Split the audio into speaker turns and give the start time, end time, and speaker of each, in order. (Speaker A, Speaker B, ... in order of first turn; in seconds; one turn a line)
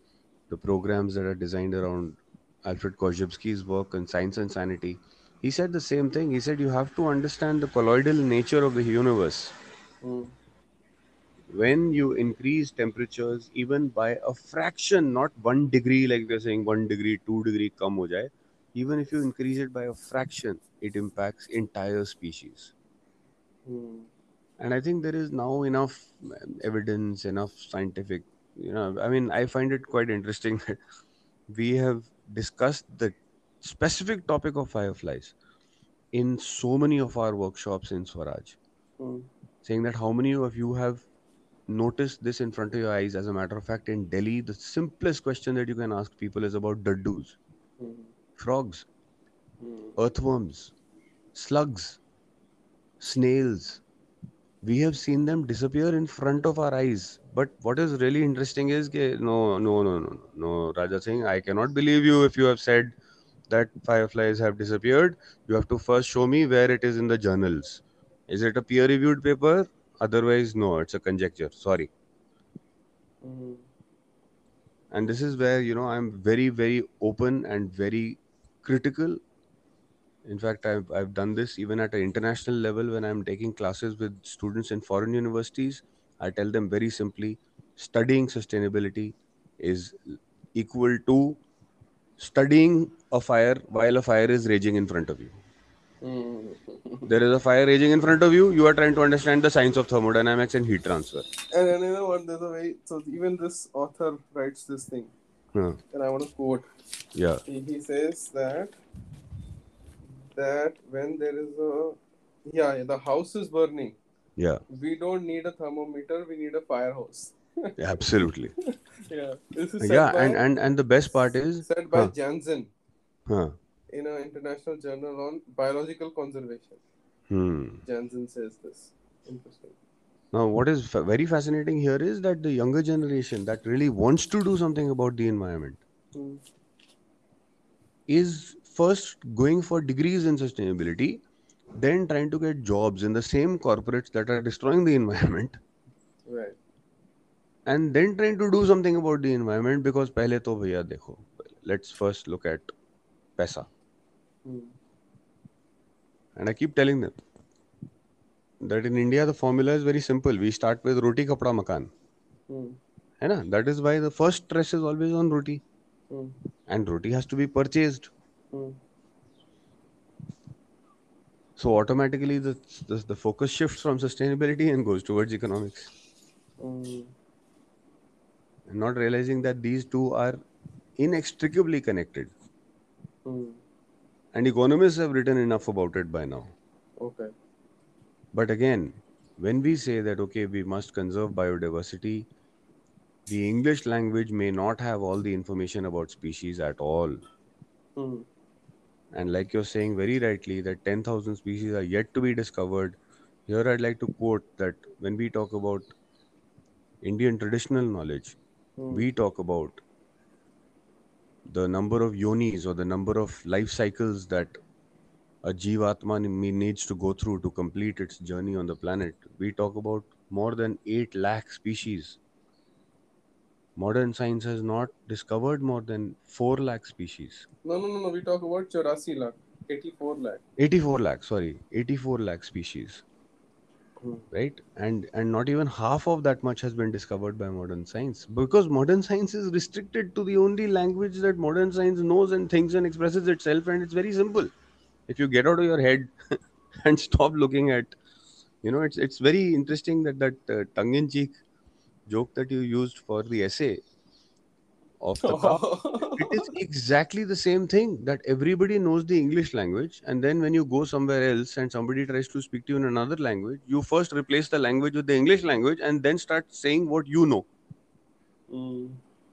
Speaker A: 0.5-9.6
Speaker B: 10.0-10.3
Speaker A: 11.5-22.7
Speaker B: 23.6-24.1
Speaker A: 24.6-30.8
Speaker A: 31.5-35.3
Speaker A: 36.1-38.6
Speaker B: 39.0-39.3
Speaker A: 39.6-41.0
Speaker A: 41.7-47.4
Speaker B: 47.8-48.1
Speaker A: 48.4-48.8
Speaker B: 49.6-49.9
Speaker A: 50.0-50.7
Speaker A: 51.3-52.0
Speaker A: 53.0-53.8
Speaker A: 54.6-63.0
Speaker A: 63.5-71.9
Speaker B: 73.2-73.6
Speaker A: 74.9-79.2
Speaker A: 80.2-91.4
Speaker A: 92.2-95.4
Speaker B: 96.0-97.1
Speaker A: 97.0-101.3
Speaker B: 101.5-105.1
Speaker A: 105.5-105.8
Speaker B: 105.9-106.7
Speaker A: 107.1-107.4
Speaker B: 107.5-108.7
Speaker B: 110.3-114.0
Speaker A: 114.4-114.6
Speaker B: 114.7-117.7
Speaker A: 117.8-118.5
Speaker B: 119.1-120.4
Speaker A: 119.8-122.1
Speaker B: 121.6-122.7
Speaker A: 123.3-123.5
Speaker B: 123.9-126.8
Speaker A: 127.3-127.8
Speaker B: 127.8-129.8
Speaker A: 130.3-135.8
Speaker B: 136.1-136.4
Speaker A: 138.1-141.2
Speaker A: 141.8-145.6
Speaker B: 146.3-146.6
Speaker A: 147.7-152.7
Speaker A: 153.4-153.7
Speaker B: 154.4-154.7
Speaker A: 156.4-157.2
Speaker A: 158.6-161.9
Speaker B: 162.5-162.8
Speaker A: 163.2-165.6
Speaker B: 166.1-166.3
Speaker A: 166.7-168.1
Speaker B: 168.5-168.8
Speaker A: 171.6-175.9
Speaker B: 176.6-177.1
Speaker A: 178.7-180.4
Speaker A: 181.0-182.3
Speaker B: 183.2-183.6
Speaker A: 184.3-186.5
Speaker B: 187.0-187.3
Speaker A: 188.3-192.3
Speaker A: 193.3-197.2
Speaker B: 197.9-198.3
Speaker A: 199.1-205.9
Speaker A: 207.0-208.4
Speaker B: 208.8-209.1
Speaker A: 208.9-209.8
Speaker A: 211.5-214.6
Speaker A: 215.4-222.2
Speaker A: 223.8-227.5
Speaker B: 227.6-230.4
Speaker A: 230.6-233.0
Speaker A: 234.3-244.5
Speaker A: 245.1-246.1
Speaker A: 246.8-248.0
Speaker A: 248.6-251.3
Speaker A: 252.1-253.8
Speaker A: 255.0-267.5
Speaker B: 255.2-256.4
Speaker B: 268.5-269.0